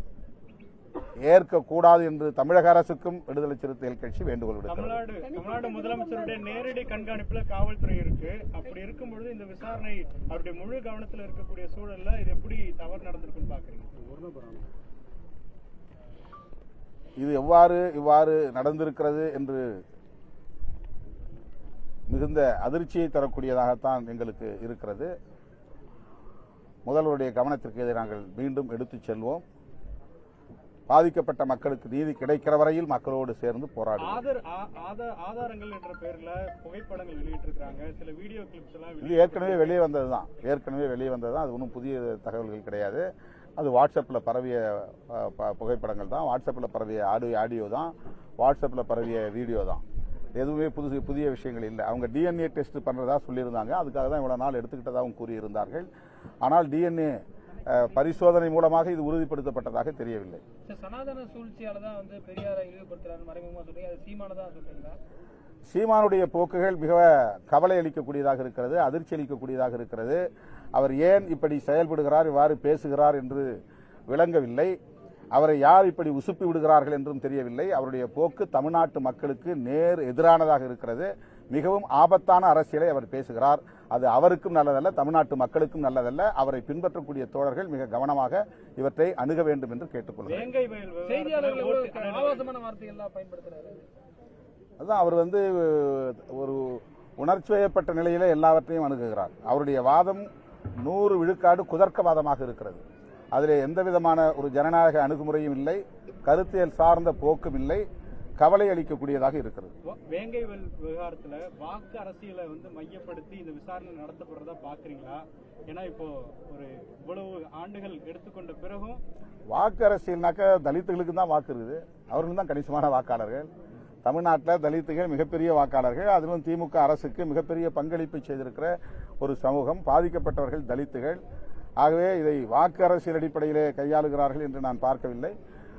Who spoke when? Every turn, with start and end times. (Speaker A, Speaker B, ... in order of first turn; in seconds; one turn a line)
Speaker A: 1.2-5.0
Speaker B: 4.7-13.9
Speaker A: 17.2-19.8
Speaker A: 22.1-25.1
Speaker A: 26.9-29.4
Speaker A: 30.9-34.2
Speaker B: 34.0-39.8
Speaker A: 39.0-49.8
Speaker A: 50.4-55.9
Speaker A: 56.4-60.4
Speaker C: 60.6-65.0
Speaker A: 65.7-73.6
Speaker A: 74.1-74.8
Speaker A: 75.3-90.5
Speaker B: 90.2-92.4
Speaker C: 91.0-93.9
Speaker A: 94.8-100.3
Speaker A: 100.8-102.8
Speaker A: 103.3-107.8
Speaker A: 108.4-109.7
Speaker B: 109.8-119.0
Speaker A: 119.5-123.5
Speaker A: 124.0-131.2
Speaker A: 131.8-135.3